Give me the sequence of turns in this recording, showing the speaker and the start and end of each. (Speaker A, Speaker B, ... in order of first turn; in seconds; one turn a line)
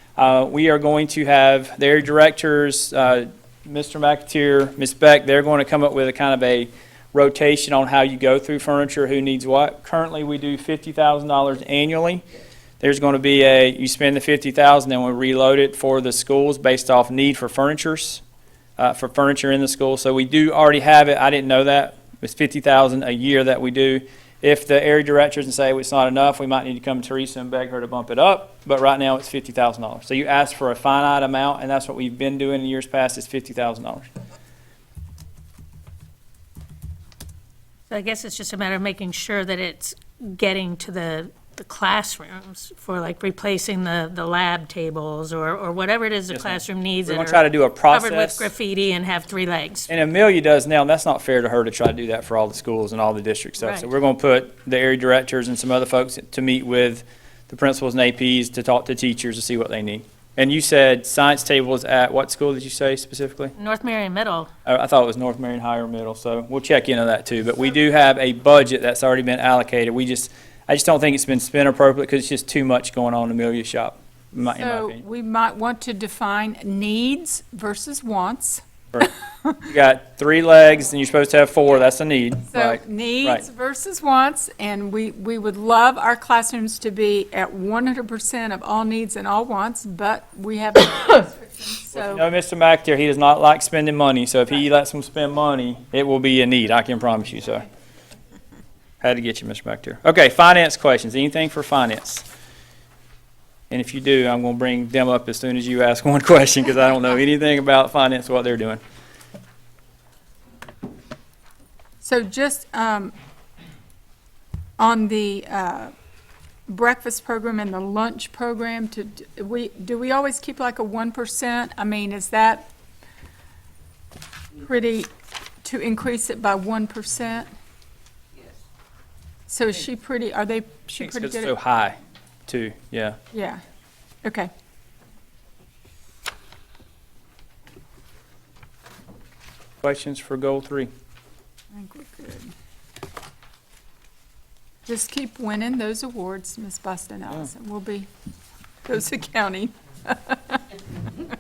Speaker A: 0.2-12.2
Speaker A: 12.8-18.2
Speaker A: 18.8-34.1
Speaker B: 37.9-49.9
Speaker A: 46.3-48.5
Speaker A: 49.9-63.5
Speaker B: 53.6-53.9
Speaker B: 63.6-64.5
Speaker A: 64.7-75.0
Speaker C: 74.5-79.5
Speaker A: 79.7-83.5
Speaker C: 82.5-92.2
Speaker A: 91.9-97.7
Speaker A: 99.0-102.2
Speaker A: 103.7-108.8
Speaker C: 112.0-113.1
Speaker C: 114.8-115.9
Speaker C: 116.7-122.7
Speaker C: 124.6-125.1
Speaker C: 125.6-127.5
Speaker C: 129.5-131.6
Speaker A: 131.0-133.2
Speaker C: 133.3-133.6
Speaker C: 134.2-134.5
Speaker A: 139.8-140.9
Speaker C: 141.7-142.5
Speaker C: 144.9-148.1
Speaker C: 148.8-150.6